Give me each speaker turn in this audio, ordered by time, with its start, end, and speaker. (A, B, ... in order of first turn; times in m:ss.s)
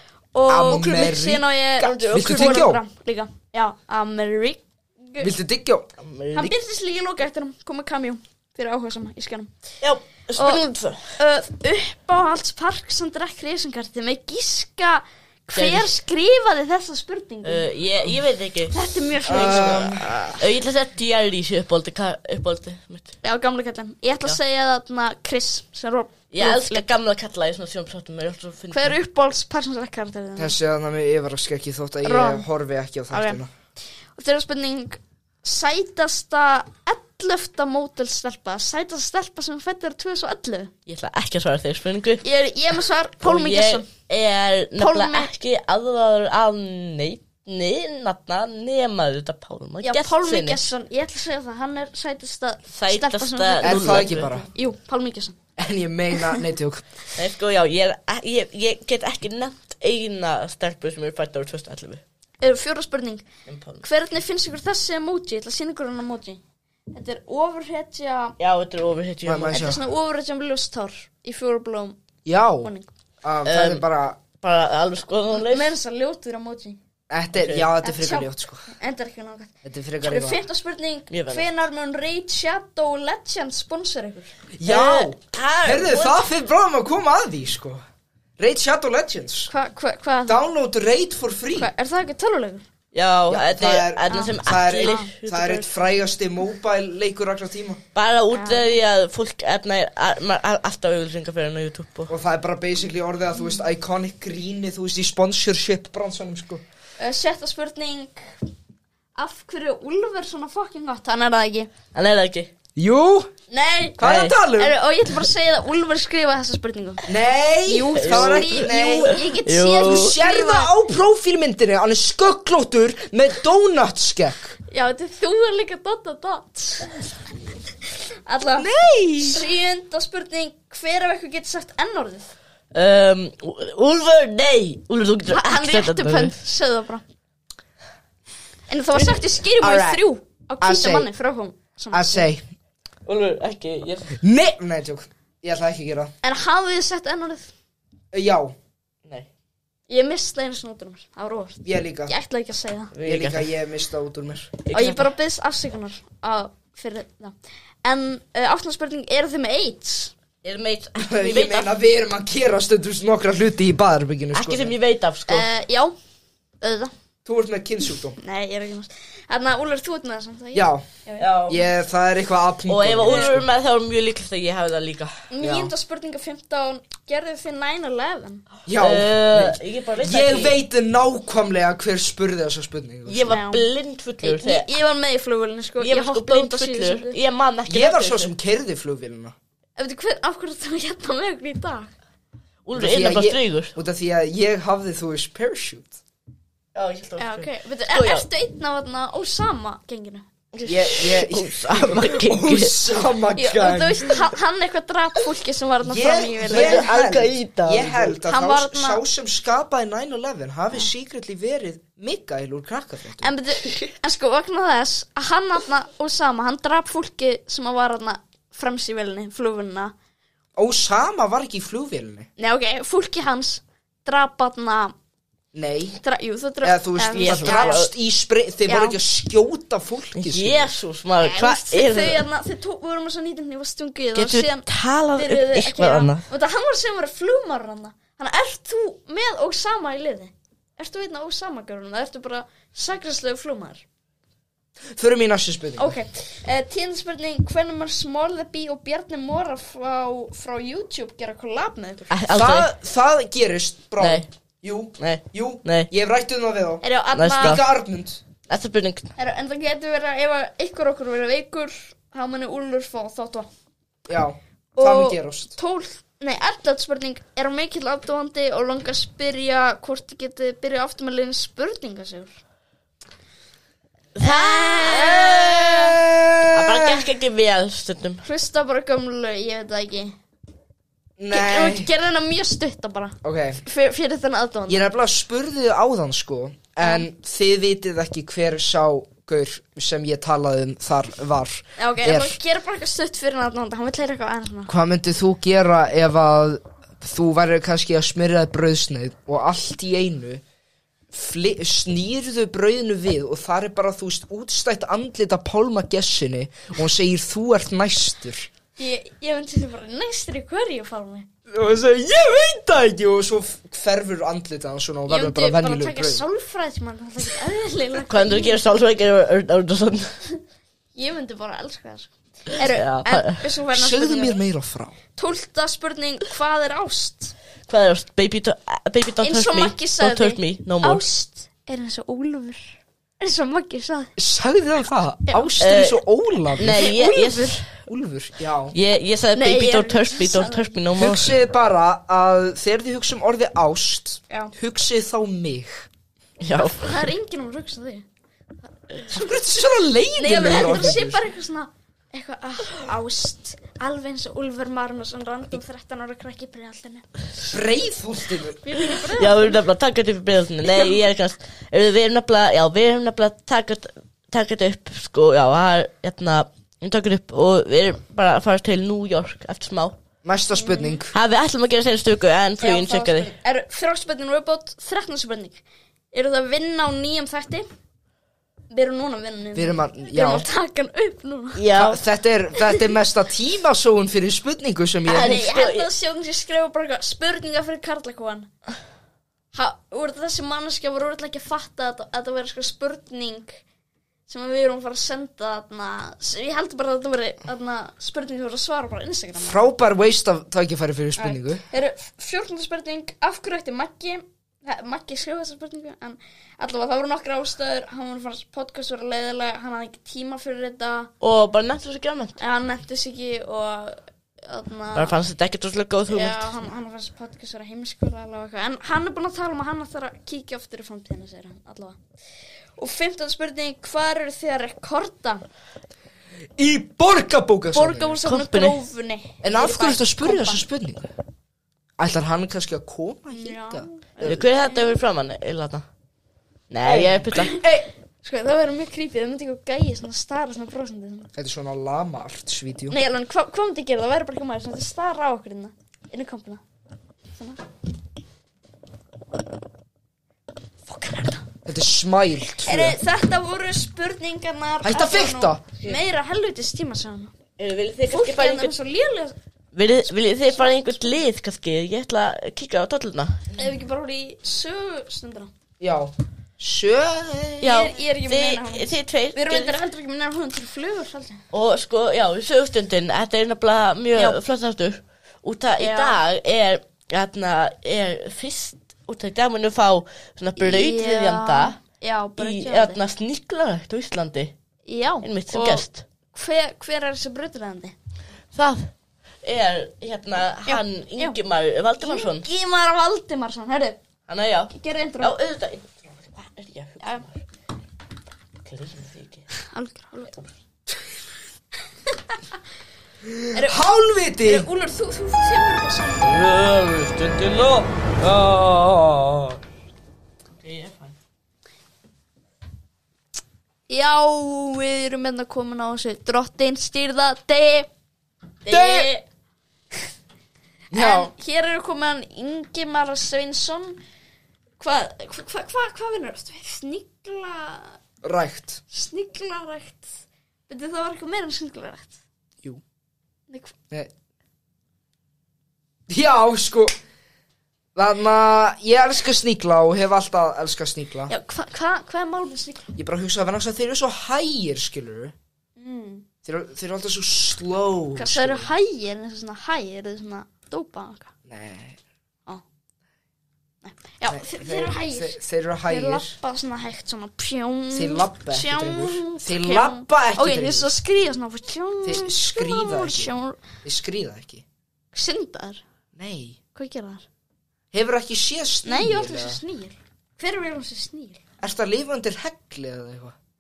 0:00.3-0:05.3 A
0:00.5-0:02.8 B
0:01.8-0:02.7 C
0:05.2-0:05.9 B
0:06.0-0:06.6 C
0:06.3-0:09.5 A
0:09.8-0:11.1 C
0:10.4-0:10.6 A
0:11.2-0:17.7 A
0:15.5-0:15.9 C
0:17.4-0:23.1 C
0:18.7-0:20.3 A
0:19.3-0:20.2 B
0:23.2-0:26.9 A
0:26.3-0:29.0 C
0:28.7-0:30.6 A
0:30.4-0:33.5 B
0:32.0-0:32.4 A
0:33.1-0:33.4 A
0:34.2-0:40.7 A
0:40.9-0:42.2 C
0:42.2-0:43.9 A
0:43.2-0:50.6 C
0:44.8-0:45.3 A
0:49.8-0:55.4 A
0:52.7-0:54.4 C
0:53.6-0:54.5 B
0:55.6-0:56.8 B
0:57.2-1:02.0 C
1:02.4-1:03.2 A
1:03.5-1:03.8 C
1:03.8-1:06.4 A
1:06.9-1:08.4 A
1:08.4-1:09.8 C
1:09.2-1:09.8 B
1:09.5-1:12.0 A
1:12.2-1:12.7 B
1:12.6-1:12.9 A
1:13.2-1:14.2 B
1:13.4-1:13.8 C
1:14.4-1:15.8 C
1:15.3-1:16.8 A
1:17.1-1:18.7 B
1:17.4-1:17.7 C
1:17.8-1:19.5 A
1:19.6-1:20.4 B
1:20.0-1:24.3 A
1:21.1-1:21.5 C
1:24.6-1:27.8 B
1:24.6-1:26.1 C
1:28.4-1:29.5 B
1:29.5-1:30.4 A
1:30.3-1:31.7 B
1:31.6-1:32.6 A
1:32.9-1:35.9 C
1:33.3-1:37.8 B
1:34.1-1:35.1 A
1:38.0-1:42.1 C
1:38.3-1:38.8 A
1:42.1-1:46.6 B
1:47.0-1:48.2 A
1:49.1-1:51.7 A
1:51.9-1:52.5 C
1:52.8-1:53.3 B
1:53.5-1:57.0 A
1:54.0-1:54.8 B
1:54.0-1:54.4 C
1:57.1-1:59.2 B
1:57.7-2:00.7 A
1:58.0-2:00.2 C
1:59.8-2:04.6 B
2:04.7-2:07.0 A
2:08.3-2:08.7 A
2:08.6-2:09.4 B
2:09.2-2:12.3 A
2:12.7-2:16.4 C
2:15.3-2:17.0 A
2:18.7-2:22.3 A
2:19.6-2:20.0 B
2:20.6-2:21.1 B
2:21.9-2:22.5 B
2:23.1-2:24.2 C
2:24.2-2:26.1 B
2:26.2-2:27.5 A
2:28.1-2:28.6 B
2:29.9-2:32.9 A
2:31.6-2:32.1 B
2:32.9-2:33.5 C
2:33.0-2:34.6 B
2:34.6-2:35.1 C
2:34.7-2:40.1 A
2:40.4-2:41.7 C
2:41.0-2:44.7 B
2:44.3-2:45.5 C
2:45.3-2:46.0 A
2:46.6-2:46.9 A
2:47.2-2:48.2 B
2:48.2-2:51.3 A
2:50.5-2:50.8 B
2:51.2-2:51.6 C
2:51.5-2:53.5 B
2:52.7-2:55.2 C
2:53.1-2:53.4 A
2:55.3-2:58.4 A
2:55.4-2:55.7 B
2:58.7-3:03.4 B
2:58.8-3:00.6 C
3:03.1-3:04.7 C
3:03.3-3:03.7 A
3:04.2-3:07.2 A
3:05.8-3:08.3 C
3:07.7-3:09.4 B
3:09.8-3:11.9 A
3:12.6-3:13.7 C
3:12.7-3:16.0 B
3:16.7-3:18.3 C
3:17.2-3:20.2 A
3:20.5-3:22.8 C
3:20.6-3:24.2 B
3:23.4-3:26.8 A
3:25.8-3:33.3 B
3:26.5-3:28.2 C
3:28.3-3:29.0 A
3:33.2-3:39.9 A
3:40.6-3:42.3 B
3:42.4-3:44.9 A
3:45.5-3:46.0 B
3:46.0-3:47.8 A
3:46.6-3:50.7 B
3:47.2-3:47.9 C
3:48.7-3:49.0 A
3:50.2-3:52.2 C
3:51.2-3:54.6 A
3:54.1-3:56.2 C
3:55.2-4:03.8 A
4:04.9-4:06.0 B
4:05.8-4:12.1 A
4:12.1-4:12.7 C
4:12.3-4:16.8 B
4:14.0-4:14.3 C
4:15.0-4:15.9 C
4:16.8-4:17.6 A
4:17.2-4:17.6 C
4:17.4-4:18.2 B
4:18.5-4:19.1 C
4:19.2-4:23.5 A
4:24.1-4:25.6 B
4:24.8-4:32.4 A
4:34.2-4:35.7 C
4:34.2-4:35.7 A
4:34.9-4:37.1 B
4:36.5-4:38.2 C
4:38.2-4:40.2 A
4:41.2-4:41.9 B
4:41.3-4:44.8 A
4:43.2-4:43.6 B
4:44.7-4:52.4 B
4:46.8-4:47.1 A
4:51.8-4:54.7 A
4:54.7-5:00.4 B
5:01.1-5:08.5 B
5:08.8-5:11.3 A
5:11.5-5:16.2 B
5:15.1-5:18.6 A
5:18.1-5:20.1 C
5:21.0-5:24.4 A
5:22.6-5:23.4 C
5:23.7-5:25.0 B
5:25.2-5:27.3 A
5:27.7-5:31.0 C
5:29.2-5:34.1 A
5:34.2-5:37.0 B
5:35.3-5:35.5 A
5:35.6-5:36.0 C
5:36.6-5:37.8 C
5:36.8-5:37.6 A
5:37.9-5:38.8 B
5:38.7-5:41.4 C
5:39.4-5:40.8 A
5:41.0-5:45.9 B
5:46.4-5:47.0 C
5:46.6-5:48.1 A
5:49.1-5:51.2 B
5:50.2-5:57.1 A
5:57.5-5:58.6 B
5:58.6-5:59.6 A
5:59.1-6:10.0 C
6:00.7-6:01.0 A
6:10.2-6:11.2 B
6:10.5-6:11.0 A
6:11.1-6:13.3 C
6:12.6-6:17.7 A
6:18.7-6:21.6 A
6:19.6-6:20.5 B
6:21.6-6:22.0 C
6:21.7-6:25.4 B
6:25.1-6:28.5 A
6:25.1-6:25.9 C
6:29.5-6:33.6 A
6:34.3-6:39.6 A
6:39.4-6:41.6 B
6:41.2-6:51.1 A
6:51.2-6:52.4 C
6:52.4-6:55.2 A
6:55.0-6:56.5 C
6:56.1-7:02.0 A
7:02.8-7:05.4 A
7:06.6-7:08.2 B
7:07.7-7:10.6 A
7:08.2-7:08.8 C
7:09.4-7:11.1 B
7:12.0-7:14.4 B
7:13.3-7:15.0 A
7:14.2-7:15.9 C
7:16.7-7:17.5 C
7:16.8-7:17.9 B
7:17.3-7:17.6 A
7:18.2-7:21.3 A
7:21.3-7:23.0 B
7:22.9-7:26.6 A
7:30.9-7:31.4 A
7:31.6-7:33.0 B
7:32.6-7:37.3 A
7:34.8-7:35.7 B
7:37.6-7:38.7 C
7:38.1-7:39.4 A
7:39.7-7:43.4 C
7:40.5-7:41.0 A
7:43.6-7:45.5 A
7:45.8-7:47.8 B
7:47.6-7:49.8 C
7:47.6-7:51.4 A
7:51.5-8:01.8 C
7:55.8-7:56.2 A
8:00.6-8:03.0 A
8:02.4-8:04.5 C
8:04.9-8:08.0 A
8:05.2-8:06.0 C
8:08.5-8:08.9 C
8:09.4-8:12.5 C
8:10.7-8:11.4 A
8:12.0-8:14.0 A
8:14.3-8:17.4 C
8:14.7-8:15.3 A
8:18.6-8:19.5 C
8:19.6-8:20.4 A
8:22.1-8:22.4 A
8:23.2-8:24.7 B
8:23.5-8:23.9 A
8:24.4-8:26.3 A
8:26.3-8:27.1 C
8:26.3-8:29.6 B
8:30.6-8:31.2 C
8:33.9-8:37.9 A
8:38.7-8:39.1 C
8:38.7-8:39.1 B
8:38.7-8:39.2 A
8:40.9-8:41.3 B
8:41.0-8:44.0 A
8:44.8-8:48.0 A
8:48.2-8:48.8 B
8:48.9-8:52.2 A
8:56.1-8:56.9 B
8:58.0-9:01.3 B
9:01.3-9:02.9 A
9:03.0-9:05.4 B
9:05.8-9:06.2 A
9:06.4-9:08.7 B
9:08.1-9:11.3 A
9:11.4-9:12.0 B
9:13.8-9:23.6 A
9:14.3-9:16.4 B
9:17.9-9:20.9 B
9:22.0-9:24.6 B
9:25.1-9:25.8 A
9:26.1-9:26.6 B
9:26.7-9:27.2 A
9:27.9-9:29.6 B
9:28.8-9:31.4 A
9:31.6-9:33.4 B